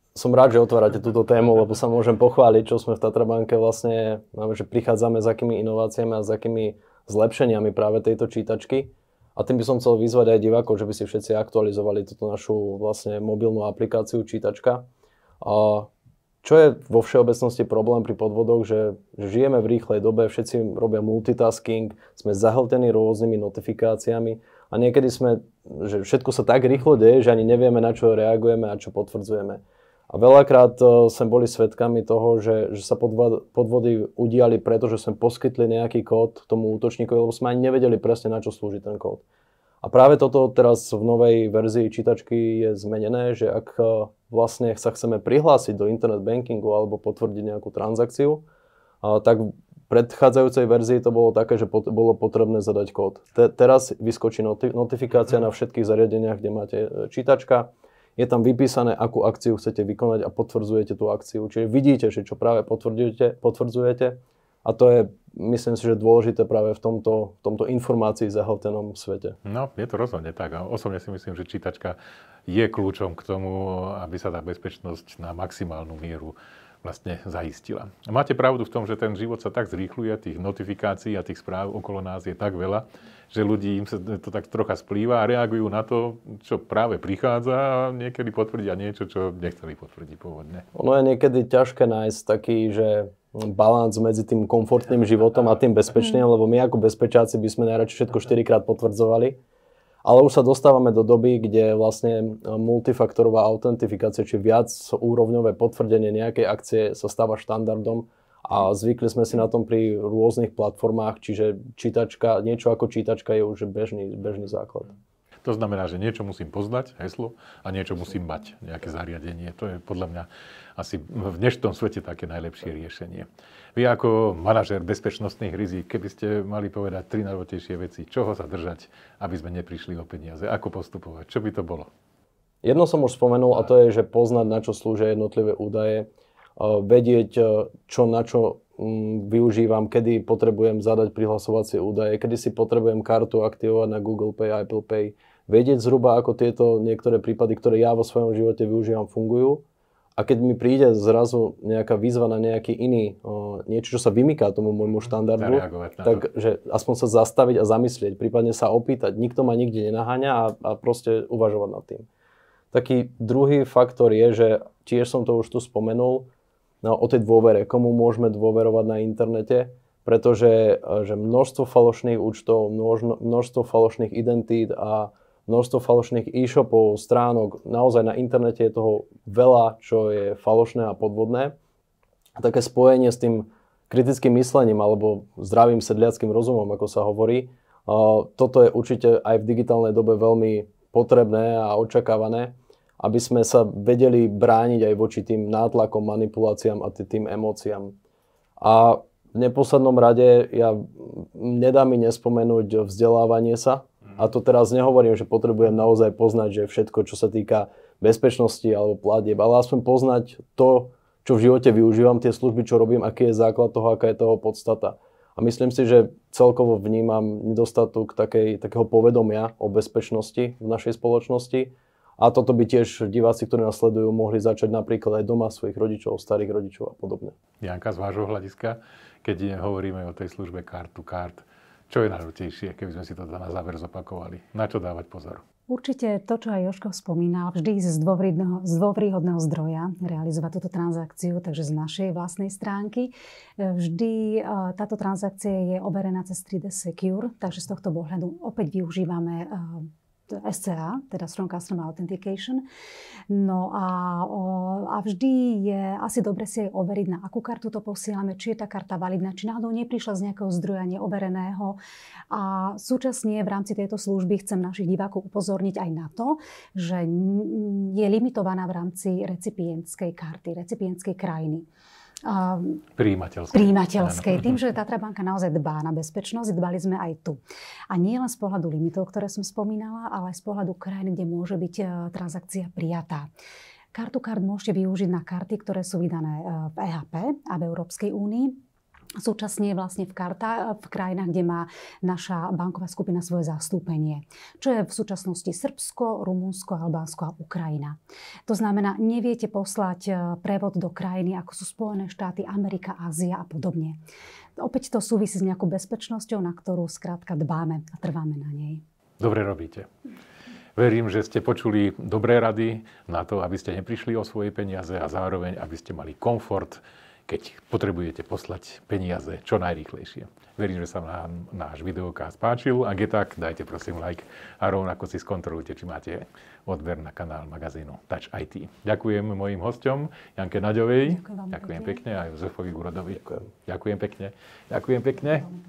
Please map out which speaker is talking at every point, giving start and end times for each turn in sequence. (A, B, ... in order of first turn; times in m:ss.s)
0:00.2-0:14.9 A
0:15.4-0:15.9 A
0:16.4-0:39.2 A
0:39.8-0:48.4 A
0:49.0-1:09.4 A
1:09.4-1:30.6 B
1:30.7-1:39.4 A
1:40.0-1:54.9 A
1:55.4-2:11.9 B
2:12.6-2:29.6 A
2:30.2-2:42.1 A
2:35.2-2:36.2 B
2:42.7-2:46.3 A
2:46.8-3:01.5 A
3:02.4-3:18.0 A
3:18.6-3:47.4 A
3:47.6-3:55.4 B
3:55.7-4:12.6 C
4:13.3-4:21.8 C
4:22.3-4:31.7 C
4:32.2-4:32.8 C
4:33.0-4:34.6 B
4:33.5-4:43.3 C
4:43.9-4:48.6 C
4:49.2-5:04.0 C
5:04.6-5:08.8 C
5:09.2-5:09.9 B
5:10.8-5:35.5 B
5:31.1-5:32.0 C